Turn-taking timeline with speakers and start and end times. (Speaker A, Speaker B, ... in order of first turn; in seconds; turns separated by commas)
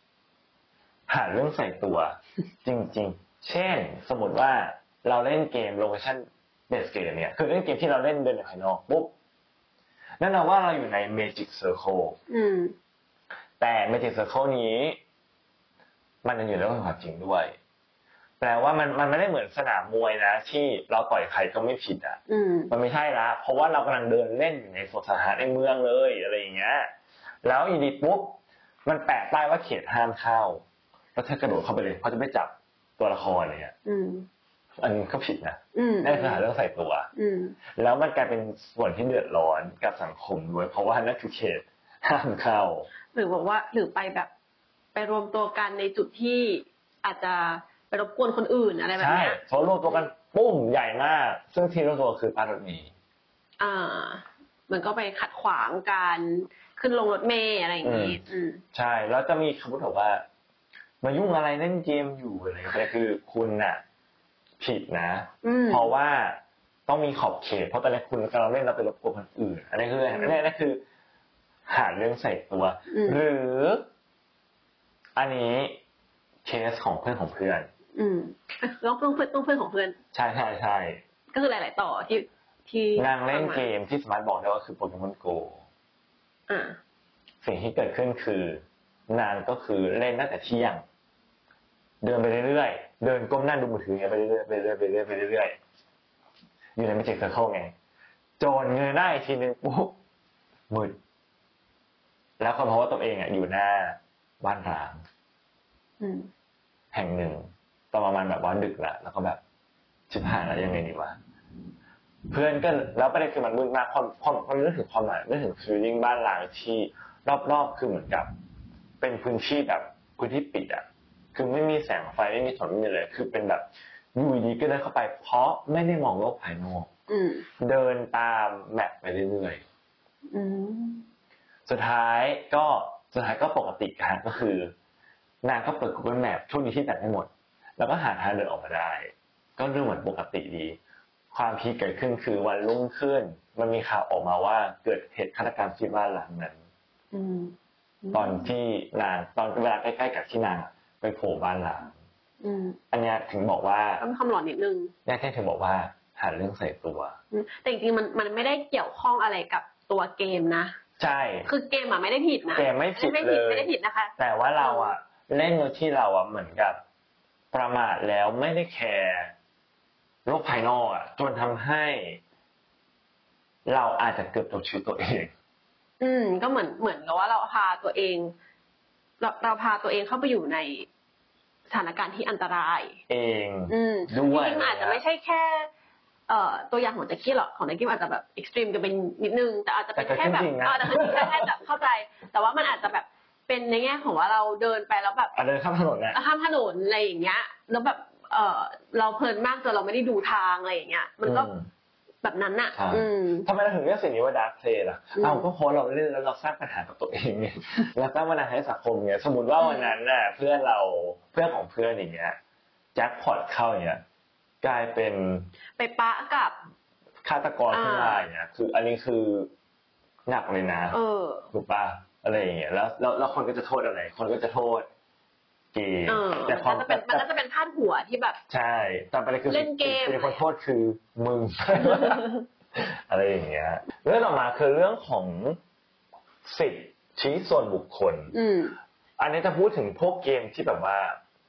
Speaker A: 1.1-9.1, Speaker A: 10.2-12.2, Speaker B: 12.3-12.8, Speaker A: 13.6-15.0, Speaker A: 16.2-17.6, Speaker A: 18.4-22.2, Speaker B: 22.3-22.7, Speaker A: 22.7-26.9, Speaker A: 27.4-30.6, Speaker A: 31.1-33.8, Speaker B: 33.9-34.3, Speaker A: 34.8-37.1, Speaker B: 35.8-36.4, Speaker B: 37.2-37.6, Speaker A: 37.7-42.9, Speaker B: 43.1-44.3, Speaker B: 45.0-50.1, Speaker A: 49.0-52.9, Speaker B: 53.6-58.6, Speaker A: 57.8-58.2, Speaker A: 58.7-60.2, Speaker A: 61.0-63.8, Speaker A: 64.6-70.8, Speaker B: 65.4-65.9, Speaker B: 70.1-70.4, Speaker A: 71.7-73.9, Speaker B: 72.9-73.2, Speaker A: 75.2-75.8, Speaker A: 76.5-77.7, Speaker B: 78.0-80.0, Speaker A: 80.1-81.0, Speaker B: 81.3-83.7, Speaker A: 83.0-85.6, Speaker B: 86.5-86.8, Speaker A: 87.4-90.8, Speaker A: 92.0-95.6, Speaker A: 96.8-97.7, Speaker A: 98.4-100.0, Speaker A: 100.7-101.0, Speaker A: 102.4-105.0, Speaker B: 106.0-106.3, Speaker A: 106.9-109.4, Speaker A: 110.1-111.2, Speaker A: 112.3-118.3, Speaker A: 119.0-126.9, Speaker B: 127.1-127.5, Speaker A: 127.6-129.6, Speaker B: 130.3-131.1, Speaker A: 131.7-134.7, Speaker A: 135.4-140.8, Speaker A: 141.3-146.6, Speaker B: 147.1-148.5, Speaker A: 148.1-151.9, Speaker B: 152.4-152.8, Speaker A: 152.9-154.0, Speaker B: 154.0-154.9, Speaker A: 155.1-157.2, Speaker B: 157.3-160.8, Speaker A: 161.0-161.5, Speaker B: 161.5-164.9, Speaker A: 162.6-166.8, Speaker A: 167.5-169.3, Speaker A: 170.2-172.2, Speaker A: 173.7-175.3, Speaker B: 176.0-178.3, Speaker B: 179.2-180.9, Speaker B: 181.7-183.0, Speaker A: 183.1-185.0, Speaker B: 183.7-185.7, Speaker B: 186.3-195.3, Speaker A: 190.0-191.5, Speaker A: 195.3-196.2, Speaker B: 196.1-201.5, Speaker A: 201.2-201.7, Speaker B: 202.2-203.5, Speaker A: 202.8-212.4, Speaker B: 205.2-205.5, Speaker B: 209.6-209.9, Speaker A: 212.9-214.0, Speaker A: 214.6-215.5, Speaker B: 215.8-216.6, Speaker A: 217.2-219.5, Speaker B: 217.7-218.3, Speaker A: 220.3-221.0, Speaker B: 220.9-221.5, Speaker A: 221.5-224.9, Speaker A: 225.7-227.3, Speaker B: 226.1-228.4, Speaker A: 228.5-235.6, Speaker B: 229.5-230.4, Speaker B: 231.8-232.3, Speaker A: 236.4-238.3, Speaker B: 238.3-238.8, Speaker A: 239.2-241.2